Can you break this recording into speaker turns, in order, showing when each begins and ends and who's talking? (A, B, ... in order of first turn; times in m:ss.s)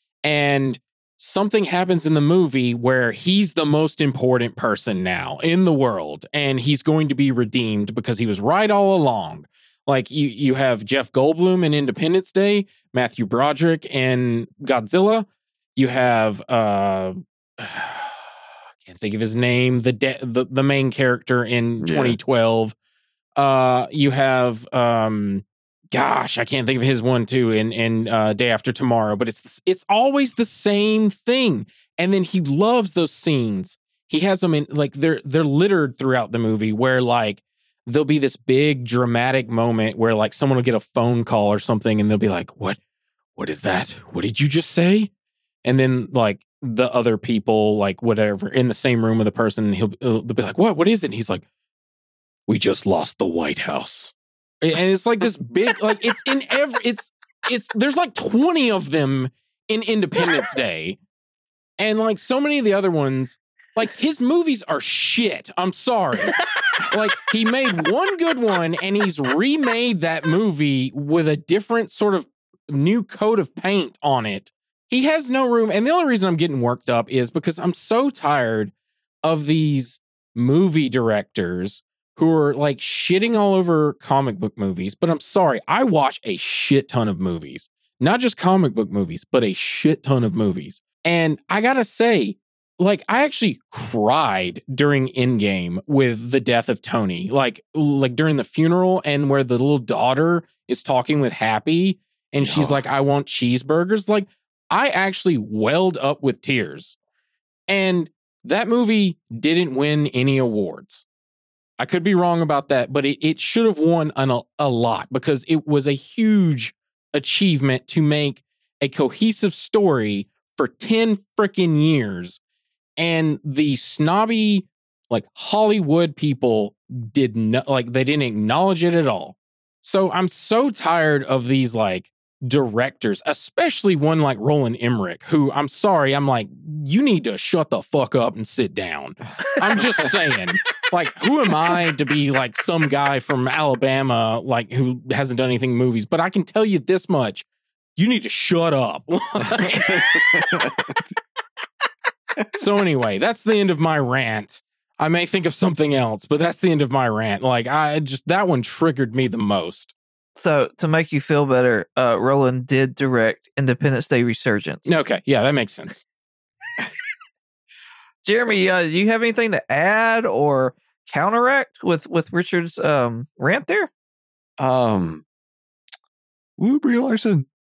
0:00.2-0:18.3 A
0:18.8-0:22.7 A
0:21.8-0:22.2 B
0:23.4-0:42.8 A
0:43.4-0:45.1 A
0:45.6-0:51.4 A
0:52.5-1:01.0 A
1:01.8-1:18.7 A
1:19.2-1:47.0 A
1:42.4-1:42.8 B
1:47.7-1:51.0 A
1:51.8-2:02.4 A
2:03.0-2:27.4 A
2:28.0-2:30.0 A
2:29.6-2:31.0 B
2:32.5-2:39.9 A
2:40.4-2:44.9 C
2:44.8-2:46.0 A
2:48.2-2:53.9 C
2:54.6-2:55.2 B
2:56.6-2:57.5 B